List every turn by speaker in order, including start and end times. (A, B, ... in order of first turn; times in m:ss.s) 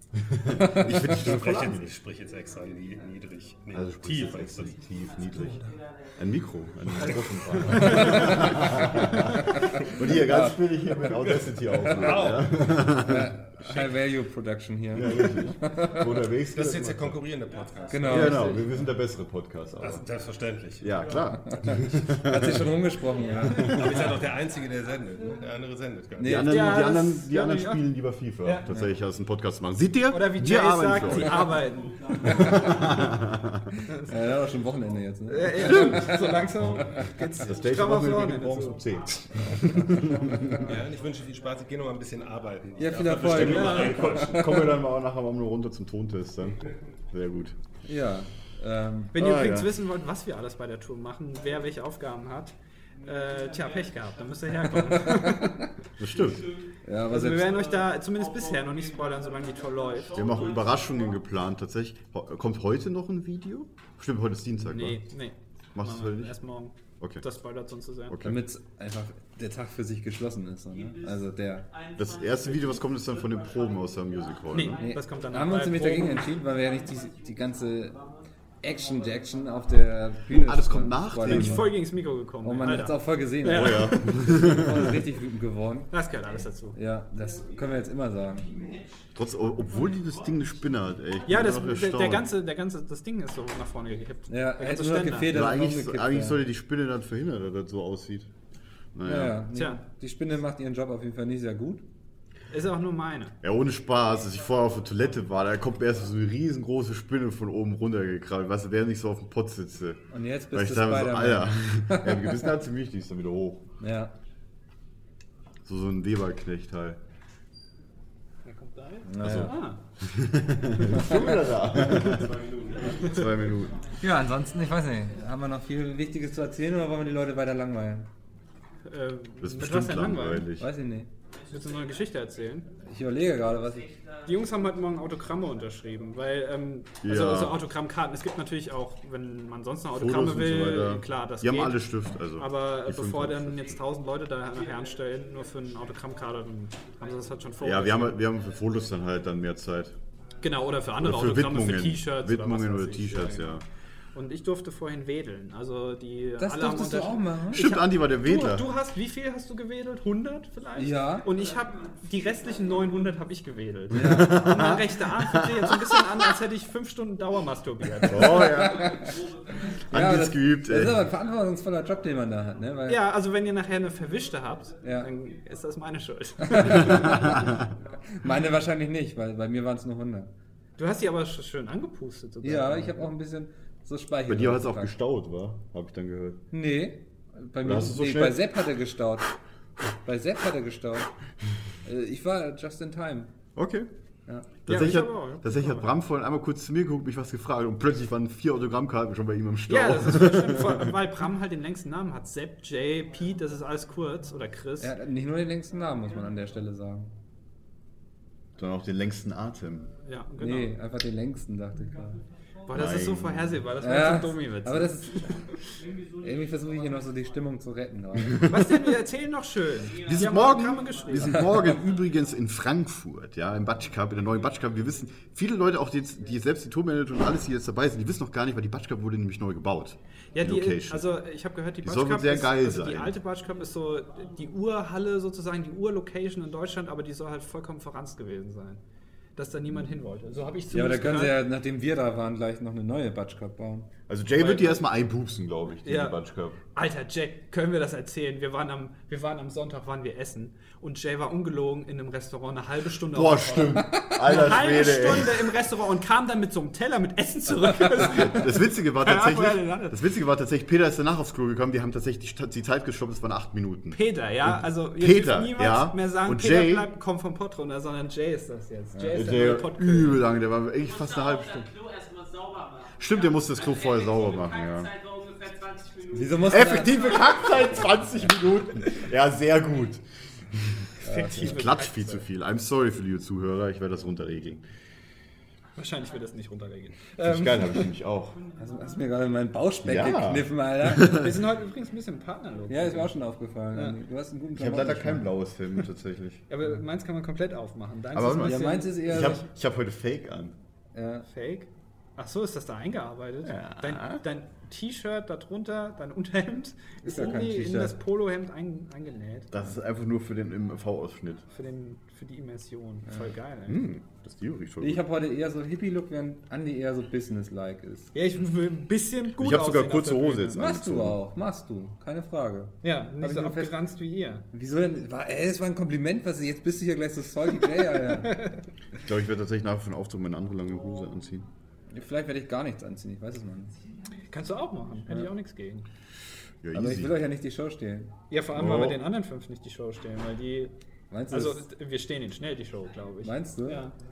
0:00.2-0:02.0 A
0:00.5-0:01.2 B
0:00.9-0:04.9 C
0:03.7-0:13.4 A
0:04.1-0:09.9 D
0:07.6-0:08.3 E
0:07.9-0:10.6 B
0:11.3-0:12.8 C
0:11.7-0:16.2 B
0:15.0-0:17.2 A
0:16.5-0:18.4 C
0:17.4-0:18.6 D
0:17.9-0:18.9 B
0:18.1-0:20.1 A
0:19.8-0:22.0 C
0:20.8-0:22.7 A
0:21.5-0:23.9 B
0:22.9-0:23.8 D
0:23.5-0:24.1 A
0:23.5-0:26.5 C
0:24.3-0:25.4 D
0:26.2-0:26.8 B
0:26.2-0:31.6 A
0:26.5-0:27.8 E
0:28.4-0:28.7 E
0:30.1-0:32.8 E
0:31.8-0:33.2 D
0:32.2-0:33.7 A
0:33.8-0:37.1 B
0:35.3-0:38.9 E
0:35.6-0:36.0 A
0:37.4-0:40.7 A
0:40.2-0:41.6 D
0:40.6-0:44.7 C
0:42.8-0:44.8 B
0:43.4-0:44.0 E
0:43.9-0:47.6 A
0:47.8-0:49.2 B
0:49.1-0:49.8 A
0:49.1-0:52.5 E
0:53.0-0:54.5 D
0:53.0-0:55.7 E
0:54.7-0:55.6 B
0:56.0-0:56.5 A
0:56.2-0:56.7 D
0:56.8-0:57.6 B
0:57.1-1:00.3 E
0:57.4-1:01.2 D
1:00.1-1:05.0 A
1:04.6-1:08.2 E
1:05.8-1:06.4 A
1:08.1-1:08.4 A
1:08.2-1:11.7 B
1:10.7-1:19.8 D
1:12.0-1:14.8 A
1:14.5-1:16.3 E
1:14.8-1:18.0 B
1:18.6-1:21.9 B
1:20.3-1:21.7 A
1:21.2-1:24.2 E
1:22.4-1:25.9 B
1:23.5-1:25.0 A
1:25.9-1:26.8 E
1:26.7-1:28.5 B
1:27.4-1:27.6 D
1:28.4-1:28.9 D
1:29.2-1:32.3 A
1:29.7-1:30.4 D
1:31.3-1:35.4 E
1:34.3-1:36.4 B
1:35.3-1:38.3 A
1:39.0-1:39.4 A
1:39.0-1:41.8 B
1:39.5-1:39.8 E
1:42.5-1:43.4 E
1:43.4-1:50.0 A
1:50.1-1:52.5 B
1:50.5-1:53.7 A
1:53.8-1:54.1 B
1:55.6-1:57.0 A
1:58.4-1:59.8 E
1:59.1-1:59.6 B
1:59.2-2:02.4 A
2:01.0-2:01.4 B
2:01.8-2:03.2 C
2:03.0-2:03.4 E
2:03.0-2:03.8 A
2:03.5-2:04.0 D
2:04.0-2:08.1 B
2:08.8-2:10.5 E
2:09.4-2:10.7 A
2:10.6-2:11.1 B
2:11.3-2:12.3 D
2:11.5-2:12.7 E
2:12.8-2:13.9 B
2:13.7-2:14.8 D
2:14.3-2:21.8 E
2:17.0-2:17.6 A
2:19.9-2:23.8 A
2:22.4-2:28.2 E
2:24.8-2:25.9 D
2:27.1-2:27.8 D
2:27.6-2:30.0 A
2:30.4-2:33.6 E
2:31.0-2:33.6 A
2:34.2-2:48.7 E
2:36.4-2:37.8 B
2:37.5-2:38.7 A
2:40.8-2:41.3 B
2:41.3-2:43.2 D
2:43.9-2:44.5 B
2:43.9-2:46.2 A
2:48.0-2:49.2 A
2:48.3-2:49.2 B
2:48.9-2:49.9 D
2:49.9-2:51.1 A
2:49.9-2:53.1 B
2:52.9-2:57.5 E
2:54.8-2:55.1 B
2:56.4-2:57.5 B
2:56.7-2:57.7 A
2:57.3-2:57.9 D
2:58.1-3:00.3 B
3:00.8-3:03.1 E
3:02.4-3:04.9 B
3:04.3-3:06.4 A
3:06.5-3:09.3 B
3:07.6-3:08.4 A
3:10.0-3:11.1 B
3:11.8-3:13.3 B
3:13.6-3:13.9 A
3:14.7-3:21.0 A
3:14.7-3:15.9 E
3:19.7-3:24.9 E
3:24.8-3:27.1 B
3:28.6-3:29.9 A
3:30.0-3:30.8 E
3:30.4-3:32.2 B
3:32.7-3:35.1 E
3:32.7-3:33.6 A
3:33.8-3:35.4 B
3:35.6-3:37.3 D
3:36.2-3:38.9 B
3:38.4-3:41.5 E
3:39.8-3:41.7 D
3:40.0-3:51.1 A
3:41.2-3:41.8 B
3:50.4-3:58.8 E
3:51.8-3:53.2 A
3:59.4-4:01.4 E
4:00.7-4:03.9 B
4:04.1-4:06.6 A
4:04.4-4:04.8 E
4:05.8-4:06.2 E
4:06.8-4:20.0 E
4:13.1-4:15.6 A
4:13.9-4:14.4 B
4:17.9-4:26.9 A
4:23.9-4:30.2 E
4:28.9-4:29.3 B
4:29.1-4:31.7 A
4:30.8-4:37.8 D
4:33.0-4:34.9 A
4:36.1-4:37.6 B
4:36.4-4:44.6 A
4:41.0-4:42.2 E
4:41.0-4:41.6 B
4:45.8-4:47.9 E
4:47.2-4:48.4 A
4:48.3-4:49.3 D
4:48.6-4:51.4 B
4:49.8-4:51.4 A
4:51.2-4:53.1 E
4:52.7-4:55.4 B
4:53.7-4:54.0 E
4:54.5-4:56.4 A
4:56.5-4:59.4 E
4:58.1-5:00.6 A
4:58.3-4:59.4 B
5:01.0-5:01.3 B
5:01.3-5:09.5 E
5:03.4-5:04.2 A
5:07.0-5:08.0 B
5:09.5-5:11.5 A
5:11.5-5:13.9 E
5:13.7-5:15.0 A
5:14.8-5:18.1 B
5:18.1-5:20.6 E
5:19.4-5:21.2 A
5:20.6-5:23.7 B
5:22.8-5:24.5 E
5:24.5-5:28.4 B
5:29.0-5:31.5 A
5:31.9-5:33.7 B
5:34.3-5:35.9 E
5:36.6-5:37.2 A
5:36.7-5:38.1 B
5:38.3-5:40.7 E
5:38.5-5:39.1 A
5:41.1-5:41.6 B
5:41.3-5:43.9 E
5:43.2-5:43.8 B